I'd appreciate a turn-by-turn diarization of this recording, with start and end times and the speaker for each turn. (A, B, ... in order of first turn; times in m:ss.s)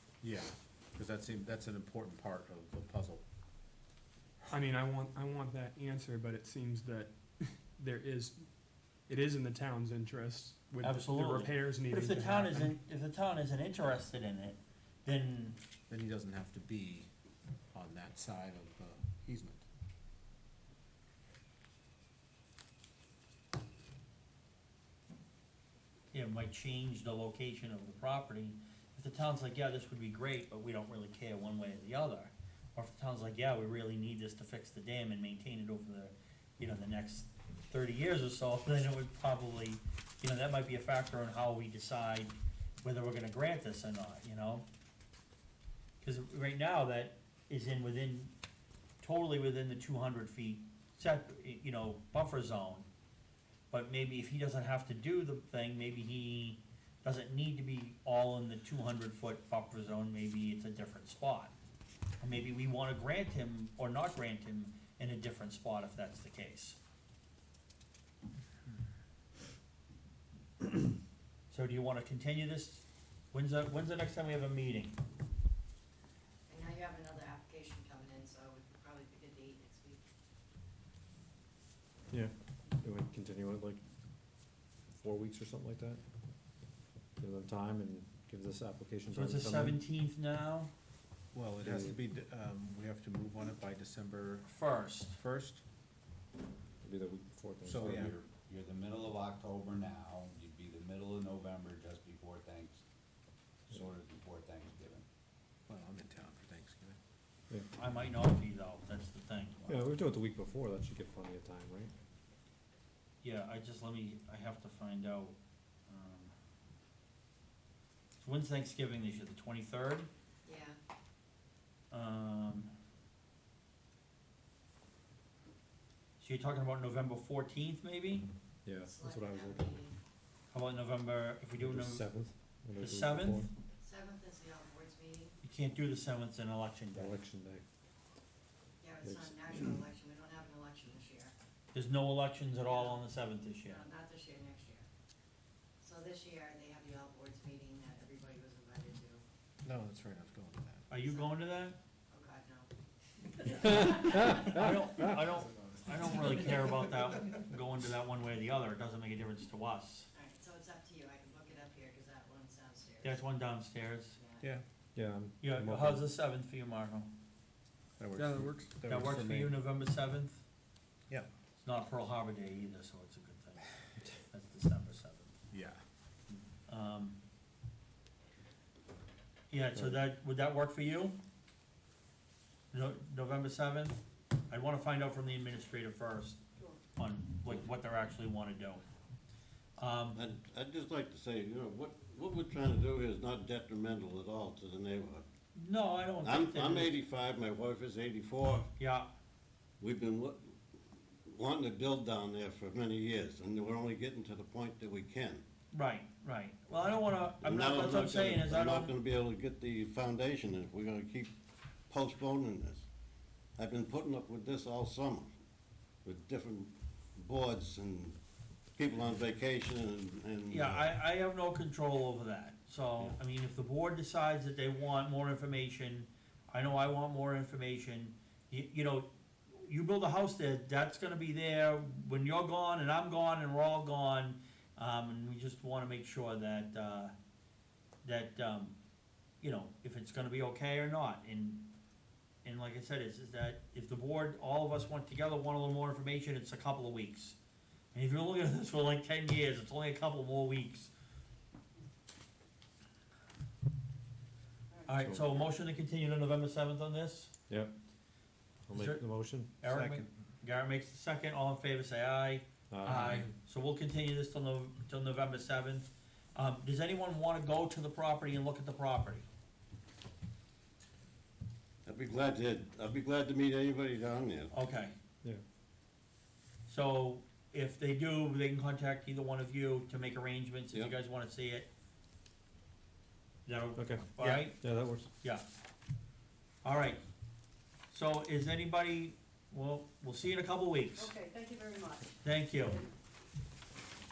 0:00.2-0:03.2 A
0:04.5-0:12.8 B
0:10.8-0:15.6 C
0:15.9-0:17.1 A
0:17.7-0:19.6 A
0:26.1-0:44.6 C
0:46.0-0:48.3 C
0:49.0-0:52.9 C
0:53.7-1:01.5 C
1:02.2-1:06.8 C
1:11.5-1:15.0 C
1:16.5-1:20.0 D
1:22.1-1:23.8 E
1:24.9-1:26.0 E
1:27.2-1:29.8 E
1:29.1-1:30.7 C
1:31.3-1:35.6 A
1:31.6-1:32.0 E
1:34.5-1:35.2 C
1:36.8-1:38.1 E
1:37.6-1:38.2 A
1:38.5-1:40.6 F
1:43.8-1:45.0 F
1:45.7-1:47.0 A
1:47.8-1:49.7 C
1:49.7-1:51.9 E
1:53.2-1:55.4 C
1:55.9-1:56.3 C
1:58.2-2:00.1 C
2:00.4-2:00.8 D
2:01.9-2:02.7 C
2:06.2-2:08.3 C
2:08.6-2:09.8 E
2:08.8-2:10.0 D
2:10.5-2:12.0 C
2:11.6-2:13.5 E
2:12.8-2:13.5 C
2:13.8-2:15.4 D
2:15.4-2:17.2 C
2:16.9-2:17.6 E
2:18.8-2:21.3 D
2:19.0-2:19.7 E
2:21.7-2:23.8 C
2:22.6-2:23.0 D
2:23.6-2:24.9 D
2:25.8-2:29.2 D
2:29.6-2:30.9 A
2:30.9-2:31.8 C
2:31.0-2:31.3 D
2:32.1-2:32.7 D
2:33.4-2:34.7 D
2:33.7-2:40.1 C
2:40.2-2:43.2 D
2:43.0-2:44.2 C
2:44.2-2:44.4 D
2:45.0-2:46.0 E
2:45.4-2:47.1 C
2:48.0-2:49.6 A
2:48.9-2:50.4 C
2:51.6-2:55.4 C
2:55.5-2:55.8 A
2:56.6-2:57.2 C
2:59.5-3:01.2 C
3:02.7-3:06.4 C
3:07.0-3:08.8 C
3:09.8-3:10.2 C
3:10.1-3:15.2 G
3:15.6-3:17.0 C
3:16.2-3:18.7 G
3:18.8-3:19.1 C
3:19.8-3:20.5 G
3:21.2-3:25.4 G
3:25.7-3:28.9 C
3:27.4-3:31.3 G
3:31.9-3:32.8 G
3:33.6-3:35.3 G
3:36.0-3:38.2 G
3:38.8-3:40.9 G
3:40.5-3:57.1 C
3:58.0-3:58.8 C
3:59.4-4:01.7 C
4:02.4-4:07.4 C
4:07.9-4:10.9 C
4:14.9-4:17.3 C
4:15.0-4:15.4 E
4:18.7-4:19.5 E
4:18.8-4:19.0 C
4:19.6-4:29.2 C
4:19.6-4:20.1 A
4:22.7-4:23.3 E
4:31.8-4:34.5 G
4:34.5-4:34.9 C
4:36.7-4:41.7 C
4:43.5-4:45.4 C
4:43.8-4:45.1 E
4:46.6-4:47.0 C
4:47.9-4:51.1 C
4:51.0-4:52.1 D
4:52.2-4:52.8 C